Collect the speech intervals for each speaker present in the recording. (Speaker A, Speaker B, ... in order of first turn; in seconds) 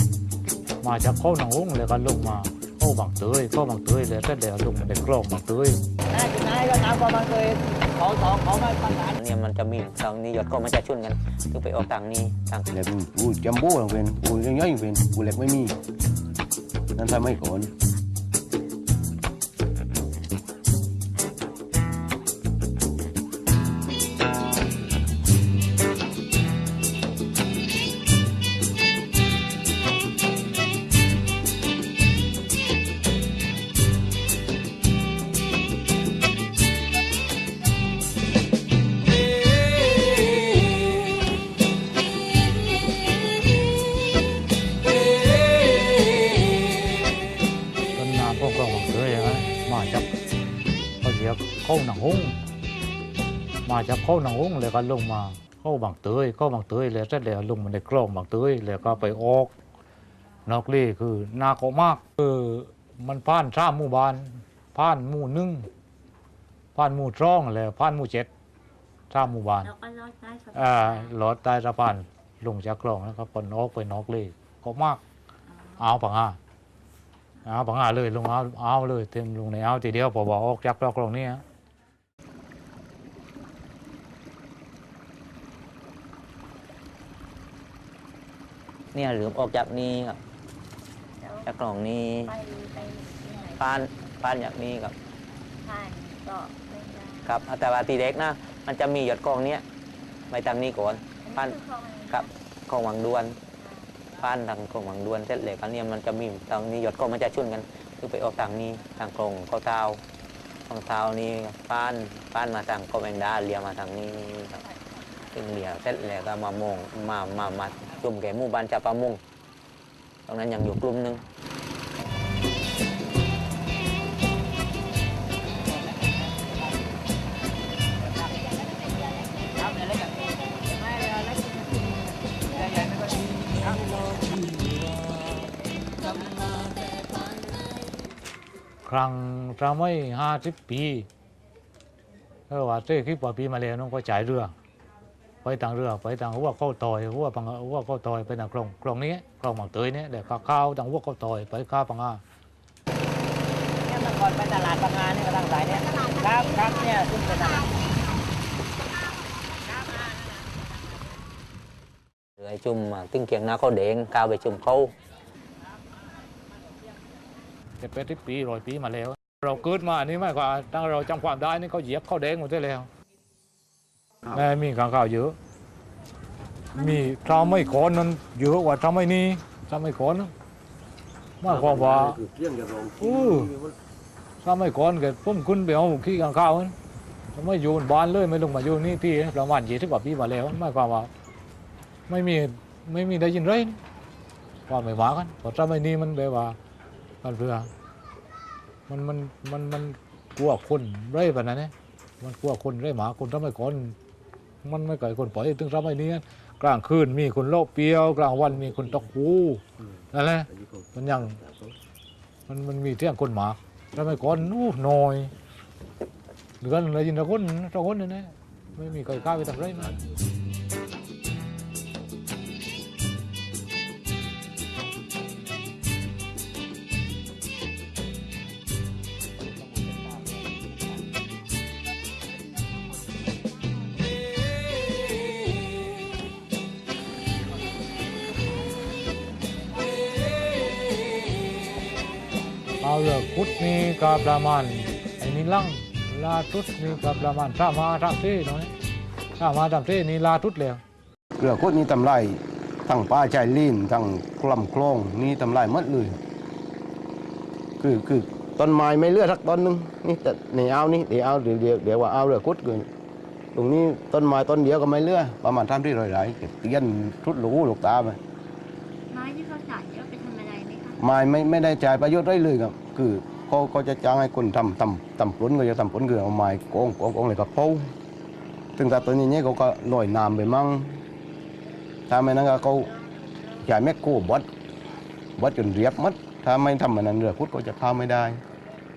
Speaker A: 0.8-5.8, 48.0-50.1, 51.0-52.4, 53.6-59.5, 60.5-65.7, 66.8-68.3, 69.1-69.7, 70.5-75.0, 75.8-76.4, 77.5-81.4, 138.8-141.1, 142.5-144.5, 145.4-152.2, 167.8-172.9, 174.3-175.4, 176.8-180.3, 181.4-182.2, 183.0-183.5, 184.4-186.8, 187.3-191.1, 192.1-193.8, 194.7-196.6, 197.2-197.7, 198.9-204.0, 204.6-211.4, 212.5-215.3, 216.6-220.0, 242.8-248.7, 249.4-250.8
Speaker B: 6.1-9.2, 125.6-126.8, 128.0-128.3, 129.5-131.9, 132.5-134.2, 136.1-136.6, 153.8-157.8, 159.5-160.7
Speaker C: 9.2-12.7, 88.9-90.2, 91.5-92.3, 93.6-94.9, 97.2-99.6, 100.3-101.6, 102.1-103.4, 104.2-110.0, 110.7-114.6, 115.3-119.2, 120.3-121.2, 162.4-164.9
Speaker D: 12.7-15.7, 16.9-17.7, 181.6-183.7, 251.4-256.2, 257.8-262.9, 263.5-268.2, 271.0-277.9, 278.8-281.0, 282.1-282.9, 283.6-284.5, 285.4-288.4
Speaker E: 69.6-71.2, 75.5-76.0, 91.2-91.7, 92.3-93.8, 95.6-97.4, 101.2-102.3, 103.6-104.0, 176.8-177.7, 269.1-271.0